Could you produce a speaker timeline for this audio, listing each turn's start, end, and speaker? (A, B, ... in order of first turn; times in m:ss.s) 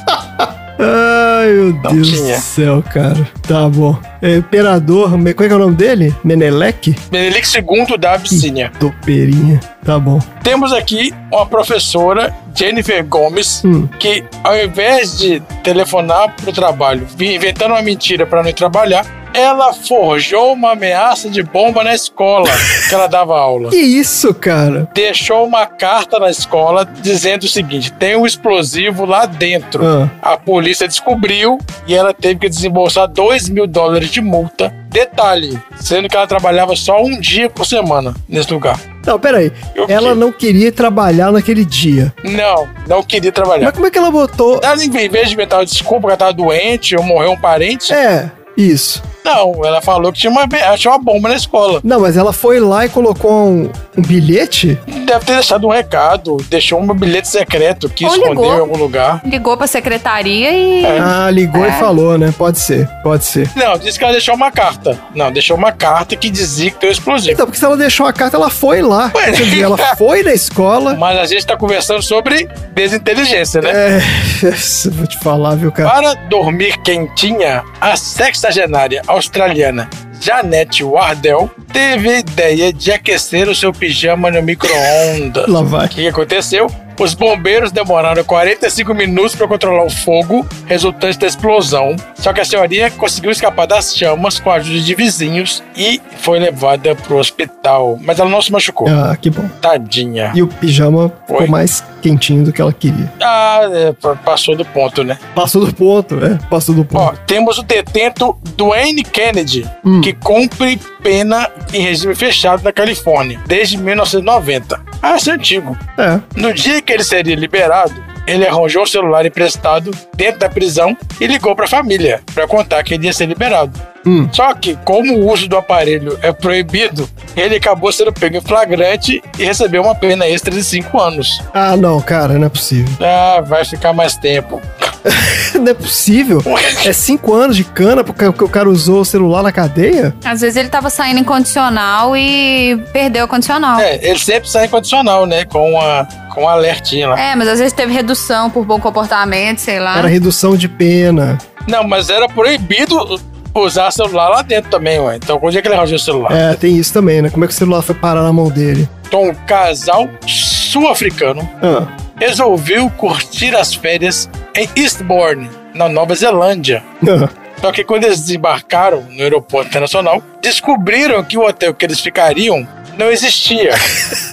0:00.8-0:07.0 A
0:01.8-0:02.4 B
0:07.1-0:08.7 B
0:08.3-0:10.3 A
0:10.4-0:23.8 B
0:13.6-0:13.9 A
0:23.7-0:24.9 A
0:24.9-0:38.8 B
0:29.8-0:30.1 A
0:39.0-0:42.1 A
0:39.7-0:40.2 B
0:42.2-0:43.7 B
0:43.6-0:44.6 A
0:44.6-0:48.0 B
0:47.9-0:49.0 A
0:49.2-0:51.8 B
0:51.8-0:54.8 A
0:54.9-0:59.2 B
0:58.0-0:58.7 C
0:59.2-1:01.9 C
1:00.8-1:01.1 B
1:01.0-1:03.5 A
1:03.5-1:07.4 B
1:07.3-1:11.0 A
1:09.1-1:09.9 B
1:10.9-1:13.8 B
1:13.6-1:15.9 A
1:15.8-1:38.9 B
1:25.4-1:25.9 A
1:38.8-1:39.5 A
1:39.6-1:40.4 B
1:40.3-1:43.1 A
1:43.2-1:45.2 B
1:45.3-1:47.1 A
1:46.9-1:55.8 B
1:49.8-1:50.1 A
1:56.0-1:56.2 A
1:56.4-2:03.8 B
2:04.0-2:04.3 A
2:04.3-2:11.4 B
2:11.5-2:13.0 A
2:13.0-2:14.9 B
2:15.0-2:20.1 A
2:16.5-2:16.9 B
2:20.2-2:23.9 C
2:23.8-2:27.2 B
2:27.1-2:30.1 C
2:29.9-2:31.4 A
2:31.6-2:36.4 B
2:36.3-2:38.9 A
2:39.1-2:41.5 B
2:41.6-2:41.9 A
2:42.2-2:46.8 B
2:47.0-2:47.3 A
2:47.6-2:54.0 B